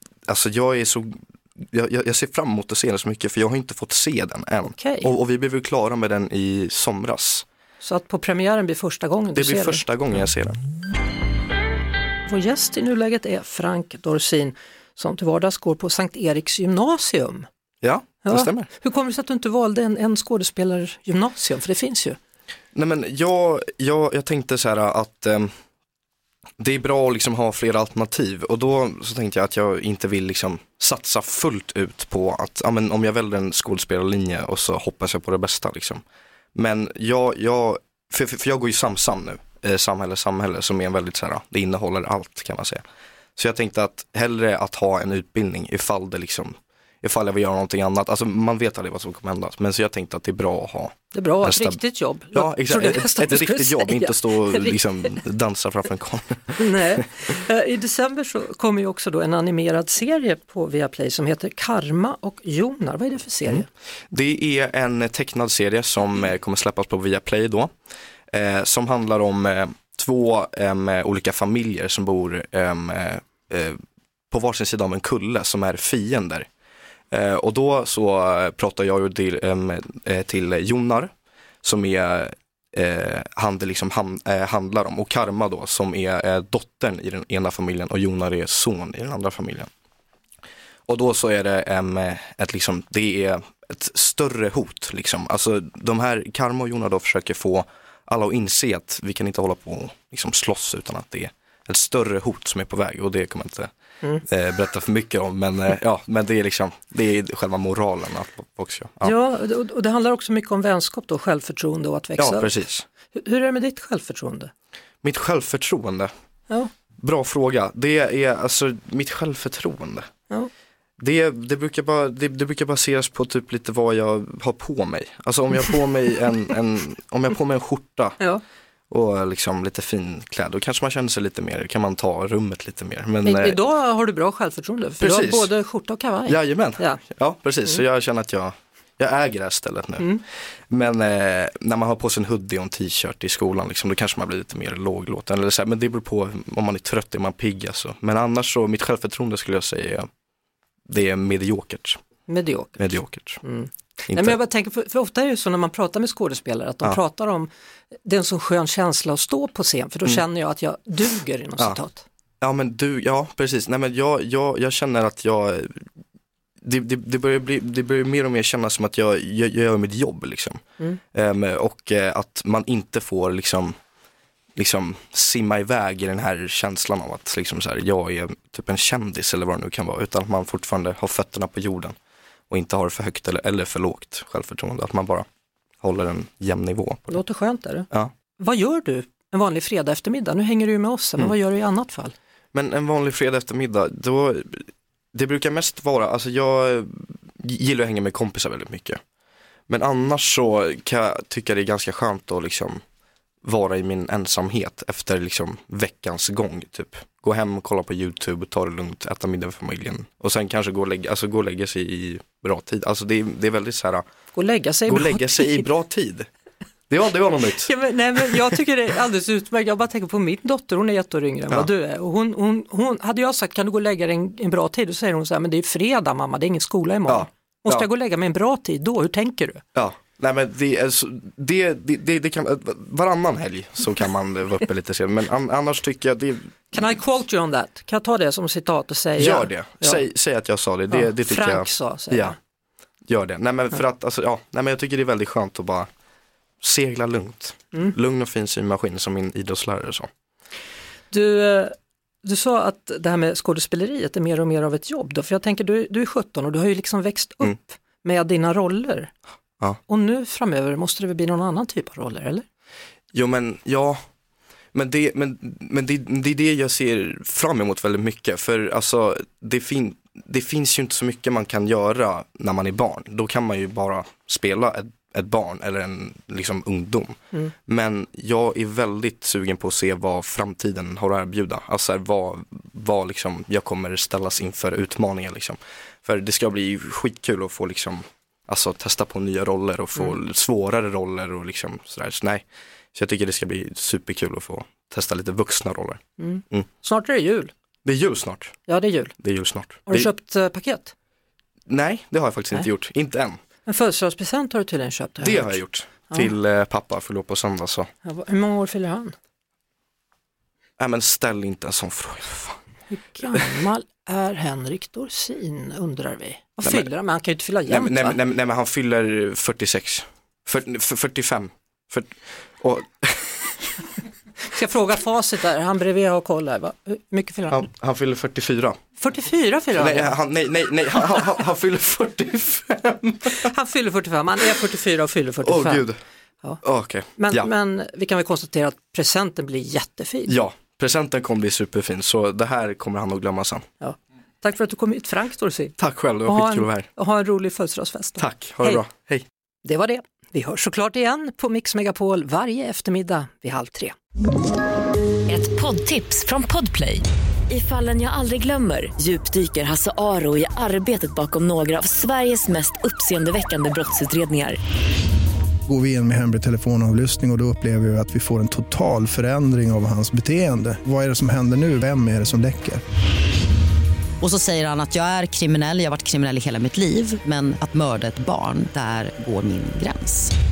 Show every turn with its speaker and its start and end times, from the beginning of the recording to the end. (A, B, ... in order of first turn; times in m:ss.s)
0:00.3-0:07.4 A
0:04.6-0:05.1 B
0:07.8-0:09.8 B
0:09.4-0:10.6 A
0:12.3-0:17.5 B
0:17.8-0:18.7 A
0:18.2-0:22.2 B
0:22.7-0:25.5 A
0:26.6-0:36.0 A
0:36.6-0:42.8 A
0:43.4-0:51.8 A
0:51.1-0:54.7 B
0:52.3-0:57.0 A
0:56.6-1:03.7 B
1:03.5-1:07.7 A
1:08.3-1:13.8 A
1:14.3-1:16.5 A
1:17.1-1:21.1 A
1:21.6-1:29.7 A
1:30.9-1:43.7 A
1:44.2-1:49.1 A
1:49.0-1:52.5 B
1:52.2-1:52.8 A
1:53.1-1:54.5 B
1:55.0-1:56.1 A
1:57.0-2:00.1 A
2:01.0-2:08.2 A
2:08.9-2:13.6 A
2:13.2-2:17.0 B
2:15.0-2:15.5 A
2:16.3-2:30.1 A
2:30.9-2:32.0 A
2:32.3-2:37.5 B
2:32.8-2:33.4 A
2:34.1-2:34.4 A
2:38.0-2:42.1 B
2:42.4-2:45.8 A
2:46.6-2:50.6 A
2:51.1-2:53.7 A
2:54.6-3:01.9 A
3:02.5-3:05.2 A
3:05.8-3:07.2 A
3:07.1-3:07.9 B
3:08.4-3:12.1 B
3:12.5-3:19.0 A
3:19.7-3:22.8 A
3:23.4-3:34.0 A
3:34.3-3:35.7 B
3:34.9-3:36.3 A
3:36.9-3:37.7 A
3:37.6-3:49.6 B
3:47.1-3:47.9 A
3:49.8-3:56.5 A
3:56.7-4:00.0 B
3:59.2-4:02.4 A
4:00.9-4:02.4 B
4:03.1-4:05.9 A
4:06.6-4:10.1 A
4:11.1-4:19.1 B
4:19.9-4:22.4 B
4:23.1-4:24.0 A
4:24.7-4:56.7 A
4:56.2-4:57.5 B
4:57.8-4:58.6 A
4:58.7-4:59.1 B
4:59.2-5:00.1 A
4:59.9-5:00.9 B
5:01.7-5:03.4 A
5:03.7-5:05.6 B
5:05.2-5:07.9 A
5:08.0-5:09.1 B
5:10.8-5:12.6 A
5:12.9-5:18.2 B
5:16.6-5:16.9 A
5:17.7-5:23.7 A
5:24.5-5:27.6 B
5:27.5-5:28.8 A
5:29.0-5:30.2 B
5:29.8-5:33.5 A
5:33.4-5:35.8 B
5:35.4-5:36.0 A
5:36.6-5:37.5 A
5:37.2-5:40.3 B
5:40.3-5:43.6 A
5:43.8-5:48.8 B
5:45.8-5:46.9 A
5:48.2-5:49.3 A
5:49.6-5:54.0 B
5:55.3-6:04.6 C
6:05.7-6:12.8 D
6:14.2-6:20.3 E